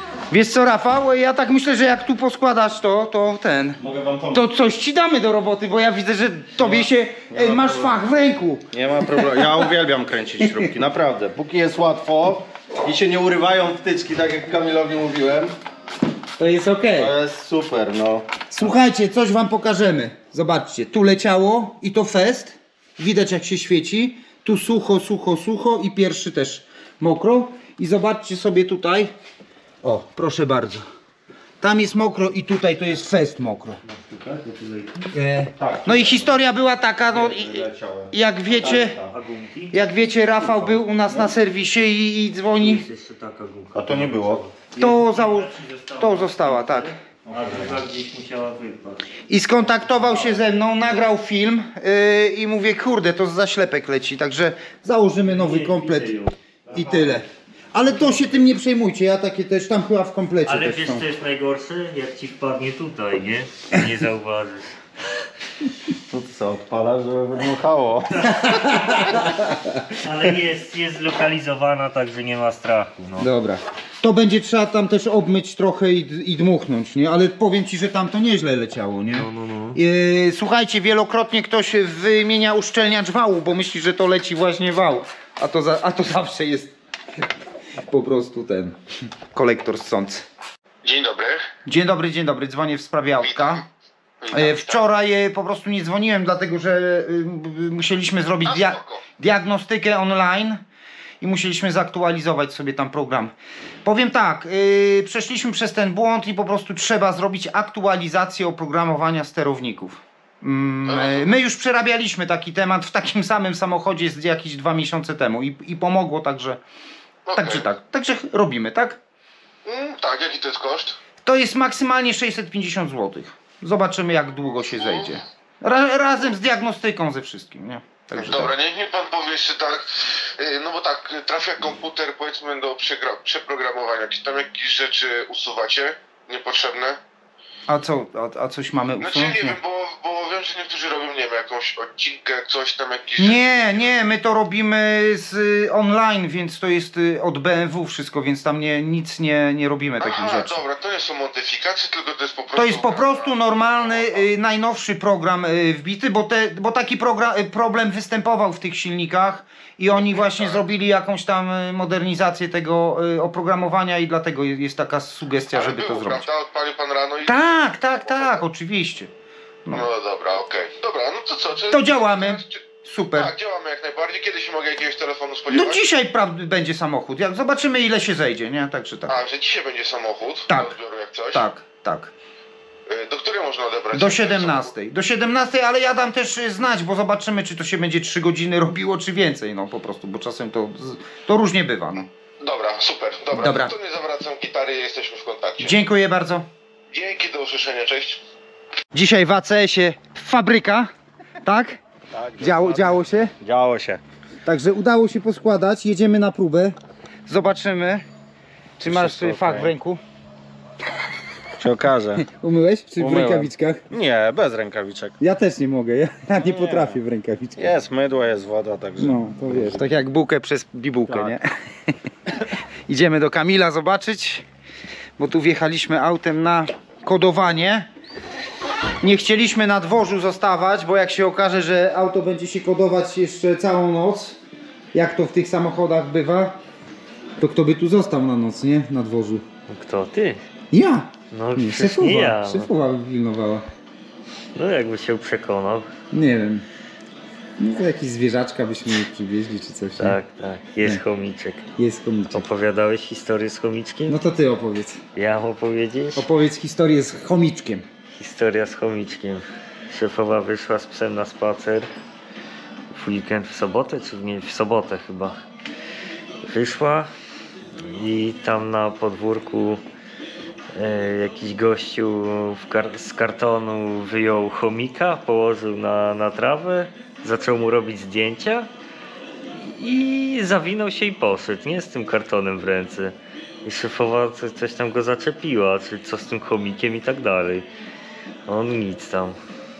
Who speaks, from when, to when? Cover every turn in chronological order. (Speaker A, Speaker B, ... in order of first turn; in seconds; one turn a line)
Speaker A: 0.3-3.8
Speaker B: 3.8-4.4
Speaker A: 4.3-9.7
Speaker B: 6.6-8.0
Speaker B: 8.7-15.6
Speaker A: 10.4-10.7
Speaker A: 16.4-17.1
Speaker B: 17.0-18.4
Speaker A: 18.5-29.1
Speaker A: 29.8-30.8
Speaker A: 31.6-33.8
Speaker C: 33.8-35.1
Speaker A: 35.1-39.0
Speaker B: 35.6-36.4
Speaker B: 37.1-39.1
Speaker C: 39.1-40.9
Speaker A: 39.7-42.8
Speaker C: 42.5-49.2
Speaker B: 43.7-44.4
Speaker A: 44.8-46.9
Speaker B: 47.3-47.8
Speaker A: 49.3-56.1
Speaker C: 49.9-50.4
Speaker C: 55.2-57.2
Speaker A: 56.7-61.0
Speaker C: 60.5-64.8
Speaker B: 66.1-68.4
Speaker C: 68.3-69.3
Speaker A: 68.3-69.8
Speaker C: 69.9-73.3
Speaker A: 73.2-87.3
Speaker C: 79.1-79.8
Speaker A: 87.8-88.8
Speaker A: 89.3-90.3
Speaker D: 90.8-91.5
Speaker A: 91.6-93.6
Speaker D: 94.2-94.7
Speaker A: 94.3-100.6
Speaker D: 98.4-99.0
Speaker A: 101.2-103.3
Speaker A: 103.8-116.6
Speaker D: 110.9-111.3
Speaker D: 117.3-117.6
Speaker A: 117.3-119.0
Speaker D: 119.6-121.0
Speaker A: 121.2-128.6
Speaker D: 128.2-137.0
Speaker A: 137.7-139.6
Speaker D: 139.0-143.9
Speaker A: 143.2-150.6
Speaker D: 150.0-154.2
Speaker A: 152.6-166.3
Speaker D: 159.9-160.6
Speaker D: 165.5-168.4
Speaker A: 167.2-169.1
Speaker D: 169.7-175.8
Speaker A: 171.7-173.3
Speaker A: 175.5-179.2
Speaker D: 179.1-181.4
Speaker A: 180.5-180.8
Speaker A: 181.3-182.1
Speaker D: 182.9-184.7
Speaker A: 183.9-192.1
Speaker D: 192.4-195.8
Speaker A: 193.3-193.8
Speaker A: 195.6-196.5
Speaker D: 196.9-198.2
Speaker A: 198.9-200.9
Speaker A: 201.4-201.8
Speaker B: 202.1-204.0
Speaker A: 202.4-203.3
Speaker A: 204.4-206.8
Speaker A: 207.3-208.0
Speaker A: 208.8-210.0
Speaker B: 208.8-209.7
Speaker B: 211.6-212.3
Speaker A: 212.2-213.8
Speaker B: 213.0-215.2
Speaker A: 215.2-217.8
Speaker B: 216.3-217.0
Speaker B: 217.6-219.9
Speaker A: 219.0-224.4
Speaker B: 221.1-221.3
Speaker A: 225.2-227.9
Speaker A: 229.0-234.4
Speaker A: 234.9-236.6
Speaker A: 237.4-239.4
Speaker C: 239.7-240.4
Speaker A: 240.7-243.7
Speaker C: 241.3-242.7
Speaker C: 244.5-245.9
Speaker A: 246.1-246.6
Speaker A: 247.6-250.2
Speaker C: 250.0-251.7
Speaker A: 251.8-252.4
Speaker C: 252.3-254.2
Speaker A: 254.1-255.0
Speaker C: 255.2-256.2
Speaker A: 256.1-257.9
Speaker C: 258.1-261.9
Speaker C: 262.9-265.4
Speaker C: 266.4-267.1
Speaker C: 267.8-269.8
Speaker C: 270.7-278.7
Speaker C: 279.6-287.7
Speaker C: 288.5-289.4